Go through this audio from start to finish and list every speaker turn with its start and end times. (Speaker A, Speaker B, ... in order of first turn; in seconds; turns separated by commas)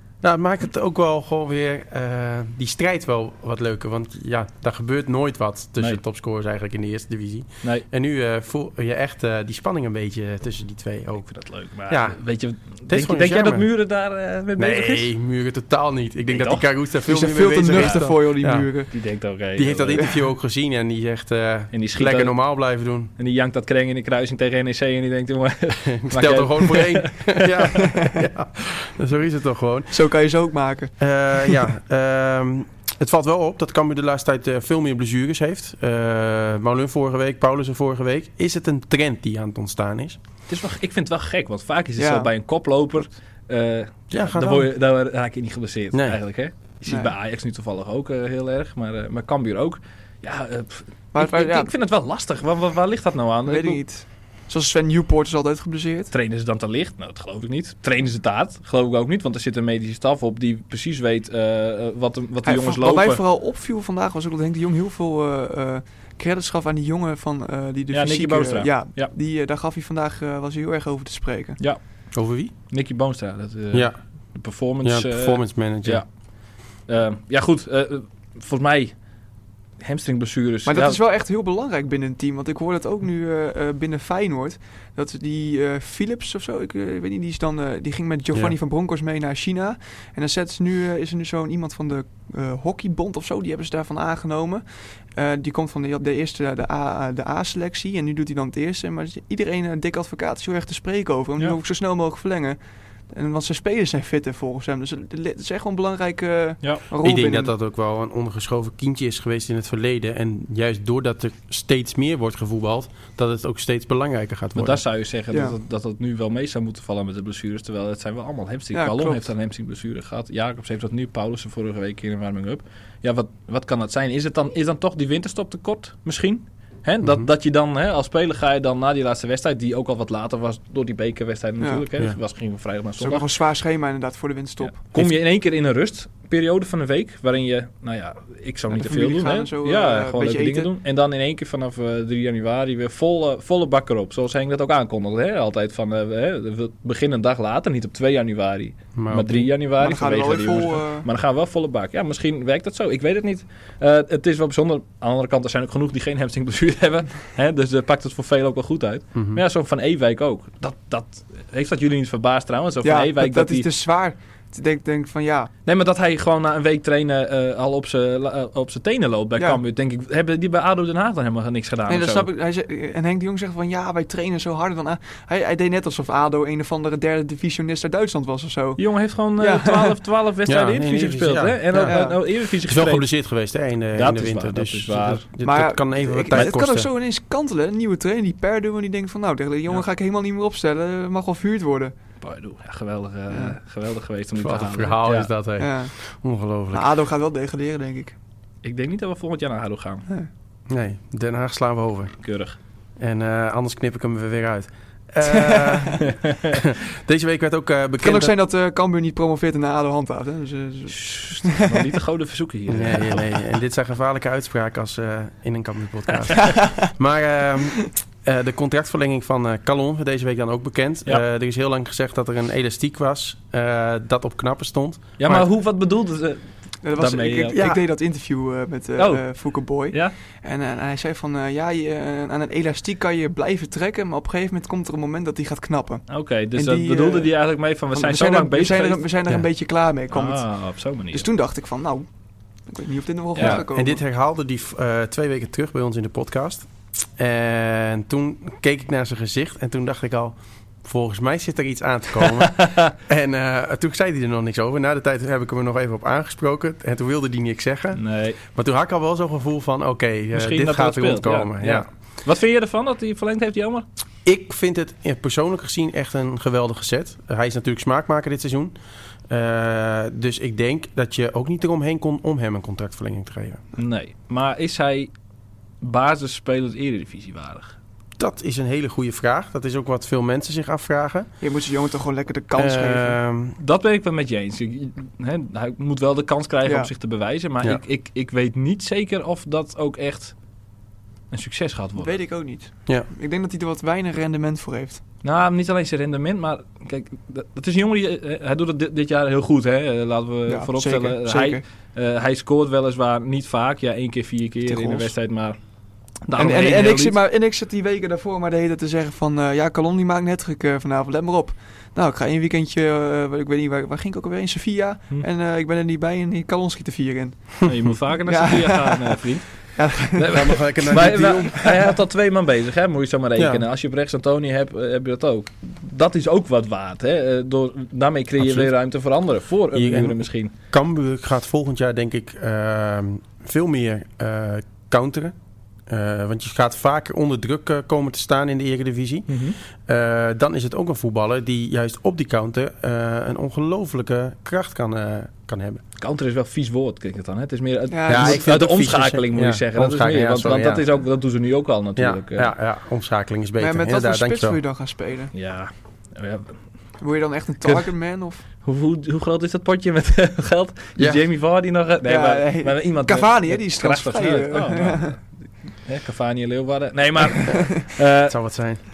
Speaker A: 0.2-11.2, Speaker B: 11.2-15.1, Speaker A: 11.9-12.2, Speaker A: 12.9-13.7, Speaker A: 14.6-18.7, Speaker B: 16.3-16.6, Speaker C: 17.1-18.9, Speaker B: 17.7-18.1, Speaker B: 18.9-20.0, Speaker A: 19.6-23.1, Speaker B: 21.7-22.4, Speaker B: 23.2-27.7, Speaker A: 25.9-29.9, Speaker C: 27.8-28.1, Speaker C: 29.9-30.9, Speaker A: 31.0-40.2, Speaker B: 40.5-53.8, Speaker C: 42.0-42.3, Speaker A: 44.1-44.7, Speaker A: 45.9-46.2, Speaker C: 46.9-47.1, Speaker C: 51.1-51.7, Speaker C: 53.5-56.1, Speaker B: 56.1-63.2, Speaker C: 62.4-71.6, Speaker B: 67.9-69.1, Speaker A: 72.1-72.5, Speaker B: 72.7-76.0, Speaker A: 73.7-74.0, Speaker A: 74.8-76.0, Speaker B: 76.8-79.0, Speaker B: 79.8-81.0, Speaker C: 80.7-102.6, Speaker C: 103.1-107.5, Speaker A: 107.0-114.8, Speaker B: 114.5-133.3, Speaker C: 118.7-119.3, Speaker A: 127.0-127.3, Speaker C: 133.0-134.8, Speaker B: 134.6-163.7, Speaker C: 138.7-140.7, Speaker A: 148.9-149.5, Speaker C: 149.8-151.1, Speaker A: 159.1-159.4, Speaker C: 162.8-165.5, Speaker B: 165.7-172.3, Speaker C: 171.9-178.8, Speaker B: 178.8-183.1, Speaker C: 179.4-179.9, Speaker A: 180.4-186.9, Speaker C: 181.7-182.2, Speaker B: 183.9-185.2, Speaker C: 185.4-191.9, Speaker B: 192.2-195.3, Speaker C: 193.3-193.6, Speaker A: 194.4-196.9, Speaker C: 195.6-195.9, Speaker C: 196.7-198.2, Speaker B: 198.6-200.0, Speaker A: 200.7-202.1, Speaker B: 202.2-202.6, Speaker A: 203.0-208.3, Speaker C: 205.2-206.0, Speaker B: 206.1-206.6, Speaker C: 208.0-211.8, Speaker B: 210.9-213.3, Speaker A: 212.7-225.4, Speaker C: 216.4-216.9, Speaker B: 225.2-227.7, Speaker C: 226.8-236.0, Speaker A: 227.5-227.8, Speaker B: 229.0-230.1, Speaker B: 236.1-239.0, Speaker C: 236.5-237.3, Speaker C: 237.9-240.5, Speaker B: 240.1-241.3, Speaker C: 241.1-242.1, Speaker C: 242.7-244.0, Speaker B: 243.3-243.6, Speaker A: 243.4-261.9, Speaker B: 252.3-252.9, Speaker B: 257.9-258.4, Speaker B: 260.3-263.8, Speaker A: 264.2-268.7, Speaker A: 269.3-273.6, Speaker B: 273.8-275.1, Speaker B: 275.8-277.8, Speaker A: 278.2-281.3, Speaker C: 281.4-283.2, Speaker A: 282.6-283.6, Speaker B: 283.6-290.3, Speaker C: 286.6-286.9, Speaker B: 291.3-292.1, Speaker C: 292.0-295.0, Speaker B: 295.2-305.6, Speaker C: 300.5-301.6, Speaker C: 304.6-305.1, Speaker B: 306.2-307.2, Speaker C: 306.3-320.5, Speaker B: 317.6-330.5, Speaker A: 320.3-321.9, Speaker A: 323.4-323.6, Speaker A: 328.4-328.7, Speaker A: 329.7-335.3, Speaker A: 335.9-345.8, Speaker B: 339.3-339.6, Speaker B: 346.0-352.5, Speaker C: 347.9-348.4, Speaker A: 348.1-350.8, Speaker A: 352.0-354.6, Speaker C: 353.6-355.3, Speaker B: 355.3-356.6, Speaker C: 357.0-358.4, Speaker B: 358.6-365.3, Speaker C: 362.0-365.1, Speaker B: 365.8-368.4, Speaker A: 368.3-368.8